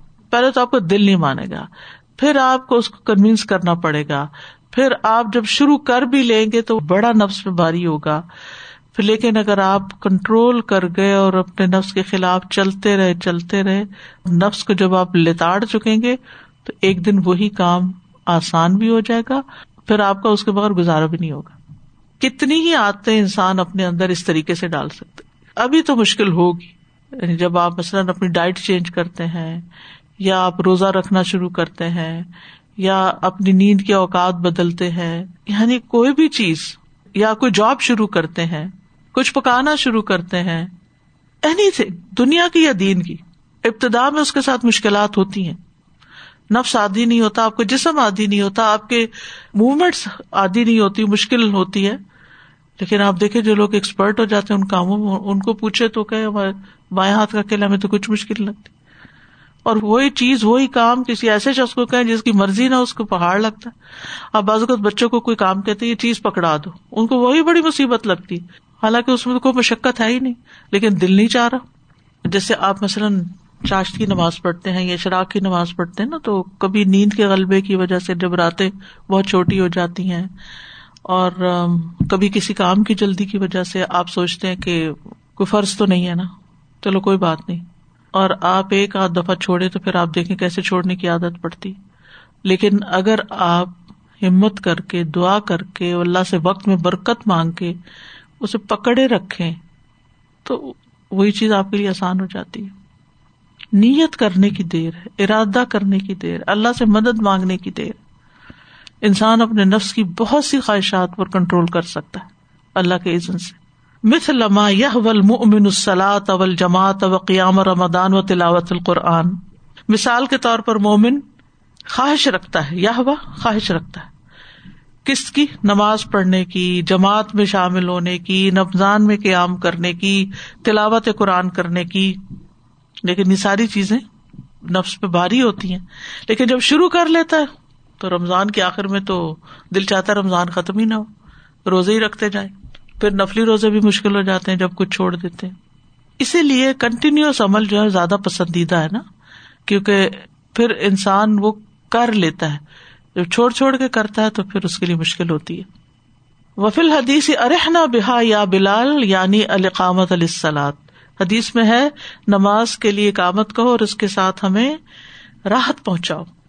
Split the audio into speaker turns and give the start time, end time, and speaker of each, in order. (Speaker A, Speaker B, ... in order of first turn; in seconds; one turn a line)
Speaker A: 0.3-8.2
Speaker A: 8.9-21.6
Speaker A: 22.2-29.6
Speaker A: 30.2-40.7
Speaker A: 41.4-45.6
Speaker A: 46.5-52.0
Speaker A: 52.8-58.8
Speaker A: 59.7-63.7
Speaker A: 64.3-71.6
Speaker A: 72.3-80.3
Speaker A: 81.1-86.3
Speaker A: 86.8-91.8
Speaker A: 92.5-97.8
Speaker A: 98.4-99.6
Speaker A: 100.5-102.7
Speaker A: 103.8-108.0
Speaker A: 109.0-119.4
Speaker A: 119.9-121.2
Speaker A: 121.9-124.1
Speaker A: 125.0-132.2
Speaker A: 133.1-134.0
Speaker A: 134.7-141.1
Speaker A: 141.7-145.6
Speaker A: 146.2-149.1
Speaker A: 149.7-152.6
Speaker A: 153.2-155.7
Speaker A: 156.6-164.8
Speaker A: 165.5-166.3